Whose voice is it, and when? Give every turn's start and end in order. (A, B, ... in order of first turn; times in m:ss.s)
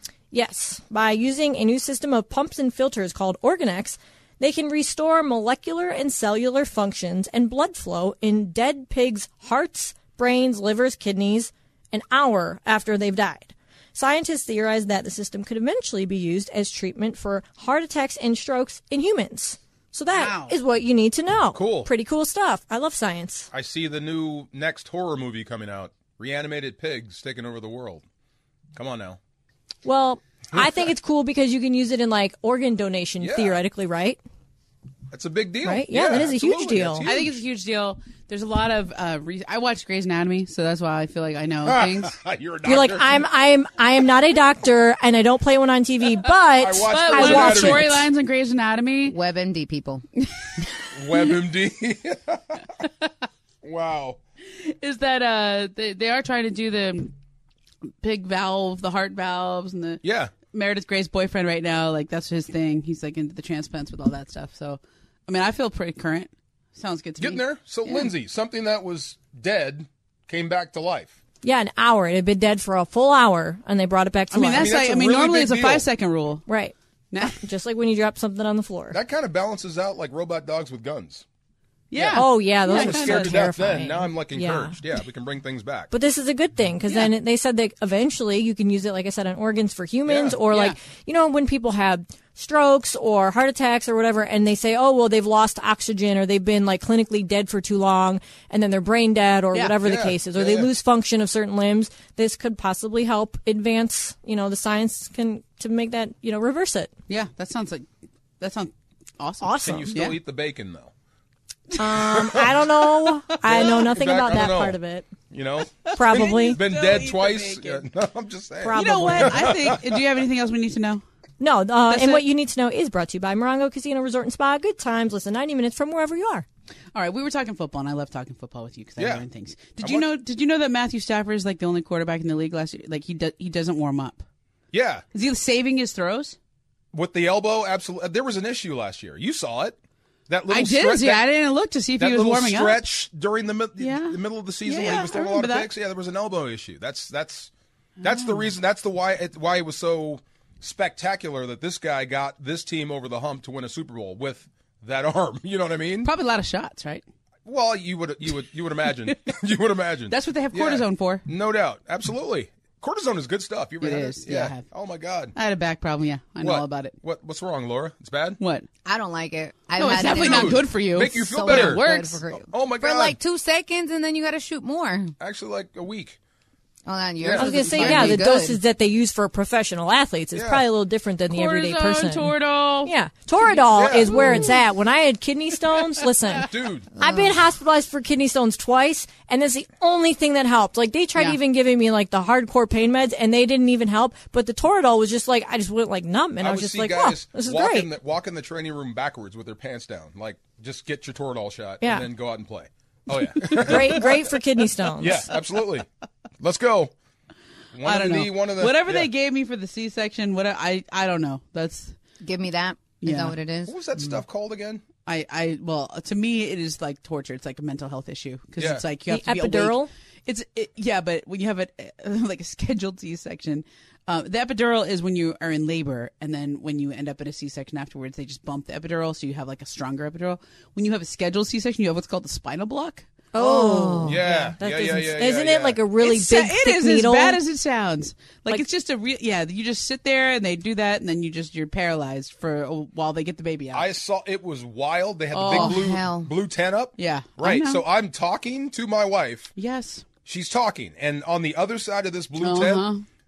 0:00.3-0:23.5 A
0:20.1-0:20.6 B
0:21.6-0:21.9 C
0:23.5-0:28.0 C
0:28.8-0:29.2 C
0:29.8-0:34.2 A
0:33.2-0:33.6 C
0:35.1-0:37.4 C
0:35.6-0:37.1 A
0:37.0-0:42.2 B
0:41.6-0:43.2 C
0:42.6-0:48.0 A
0:46.6-0:48.1 C
0:46.9-0:49.2 B
0:49.0-0:50.0 D
0:51.0-0:52.6 C
0:53.6-0:54.2 C
0:54.5-0:57.1 B
0:58.0-1:08.1 B
1:00.0-1:00.3 C
1:07.2-1:11.1 C
1:11.4-1:14.8 A
1:14.3-1:16.4 B
1:14.5-1:15.9 C
1:16.5-1:19.0 A
1:17.1-1:17.4 B
1:18.9-1:21.2 C
1:21.9-1:23.4 B
1:22.0-1:25.9 C
1:22.1-1:24.8 A
1:25.9-1:46.9 A
1:30.1-1:30.4 C
1:30.5-1:30.8 B
1:39.8-1:40.7 C
1:47.1-1:47.9 B
1:48.4-1:50.2 B
1:49.4-1:49.9 A
1:49.6-1:50.9 C
1:51.8-1:55.1 A
1:52.0-1:52.5 C
1:53.5-2:00.0 C
1:55.8-1:57.8 B
1:55.9-1:56.6 A
1:58.6-1:59.6 A
1:58.7-2:01.0 B
2:01.4-2:06.5 A
2:01.9-2:02.2 B
2:07.0-2:14.2 B
2:09.0-2:09.2 C
2:09.8-2:10.1 C
2:14.7-2:15.0 C
2:15.1-2:16.4 B
2:16.9-2:19.8 C
2:20.3-2:21.2 C
2:20.5-2:22.9 B
2:22.0-2:36.1 C
2:23.8-2:25.7 B
2:28.0-2:28.5 B
2:36.0-2:37.0 B
2:37.4-2:45.4 C
2:40.1-2:41.2 B
2:43.8-2:44.7 B
2:45.4-2:47.0 B
2:46.4-2:48.4 C
2:48.4-2:48.7 B
2:48.8-2:55.2 D
2:49.8-2:52.2 B
2:50.0-2:53.2 C
2:55.2-2:56.2 C
2:56.9-2:58.6 D
2:57.2-2:58.2 C
2:57.4-3:17.9 A
3:00.4-3:00.7 C
3:01.3-3:03.6 B
3:03.7-3:04.5 C
3:04.1-3:04.6 B
3:06.4-3:06.9 C
3:07.0-3:07.4 D
3:16.4-3:24.3 C
3:21.8-3:22.1 A
3:23.4-3:23.8 B
3:23.5-3:25.3 A
3:25.0-3:25.9 C
3:26.4-3:26.9 C
3:27.7-3:29.1 C
3:27.8-3:32.0 B
3:32.2-3:34.2 D
3:33.0-3:33.4 B
3:33.7-3:34.8 C
3:35.1-3:53.0 B
3:38.6-3:38.8 C
3:39.1-3:39.9 A
3:53.3-3:57.4 A
3:53.4-3:54.2 D
3:53.8-3:54.0 B
3:54.0-3:55.8 C
3:56.0-4:03.9 B
4:03.7-4:09.5 C
4:05.3-4:05.8 B
4:05.5-4:06.3 D
4:07.0-4:07.8 B
4:09.6-4:10.0 B
4:10.3-4:12.9 C
4:12.4-4:13.0 B